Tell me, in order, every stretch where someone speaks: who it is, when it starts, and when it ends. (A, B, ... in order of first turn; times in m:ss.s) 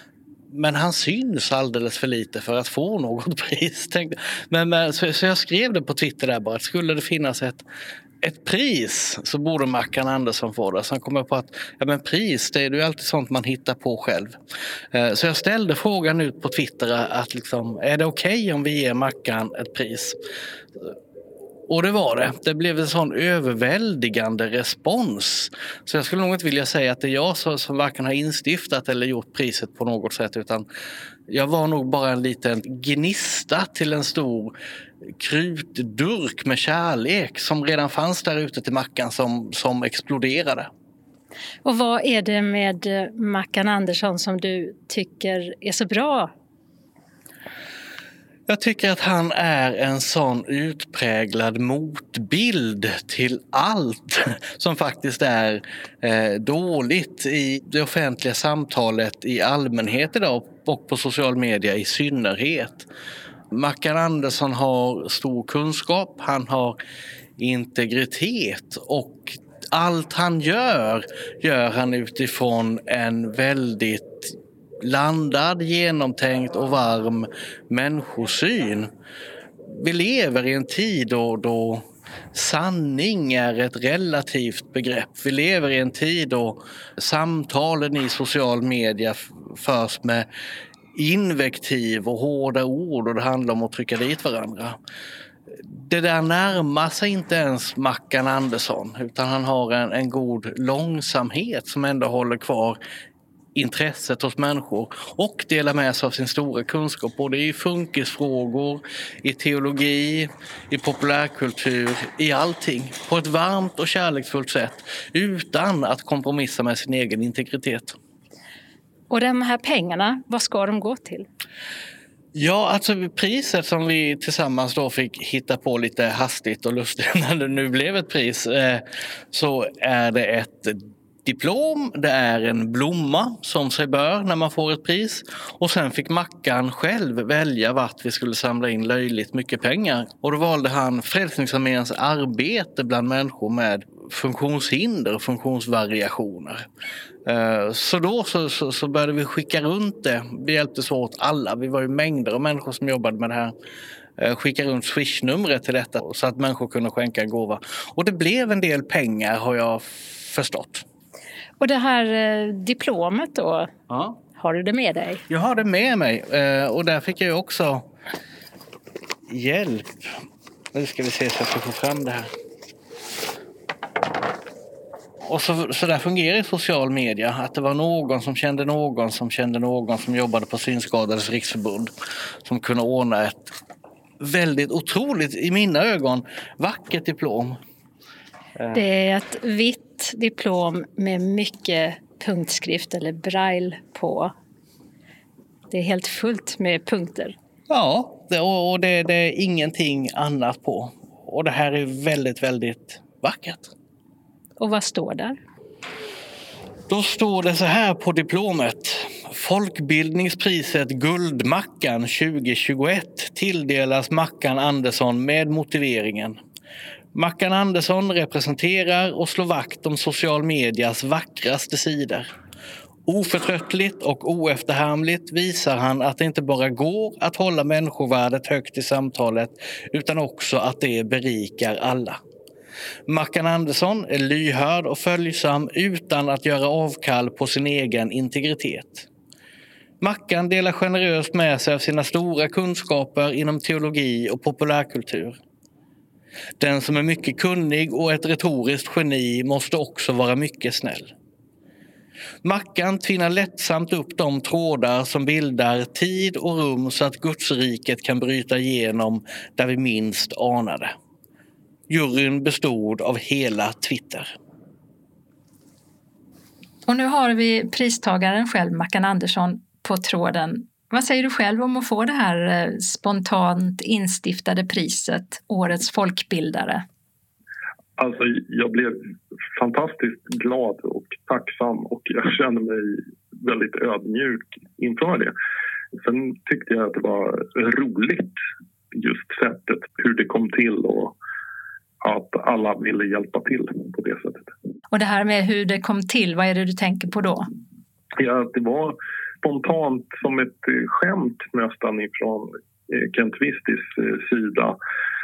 0:00.5-0:07.6 A
0:08.2-0:14.4 A
0:14.9-0:20.2 A
0:21.7-0:30.6 A
0:31.3-0:34.5 A
0:35.2-0:40.7 A
0:41.6-0:46.3 B
0:48.5-1:02.9 A
1:03.5-1:06.8 A
1:07.4-1:18.9 A
1:19.7-1:30.3 A
1:30.9-1:34.8 A
1:35.6-1:42.8 A
1:43.5-1:58.0 A
1:59.1-2:01.3 B
2:02.3-2:26.6 A
2:27.2-2:33.5 A
2:34.2-2:40.8 A
2:41.6-2:43.7 B
2:43.9-2:44.2 A
2:44.4-2:45.2 B
2:45.3-2:47.8 A
2:49.3-2:50.1 A
2:50.7-2:52.3 A
2:55.2-3:01.9 A
3:02.4-3:03.5 A
3:04.2-3:07.6 A
3:08.7-3:14.3 B
3:15.7-3:17.4 B
3:17.7-3:23.7 A
3:24.6-3:25.4 B
3:26.9-3:36.4 A
3:37.1-3:42.3 A
3:43.1-3:52.2 A
3:53.1-3:59.1 A
4:00.0-4:05.4 A
4:06.6-4:11.1 A
4:12.4-4:20.9 A
4:21.9-4:24.3 A
4:26.8-4:36.8 B
4:38.0-4:39.0 C
4:39.6-4:45.3 C
4:46.0-4:48.4 C
4:48.9-4:51.1 C
4:52.0-4:54.5 C
4:54.9-4:57.5 B
4:58.2-5:04.8 C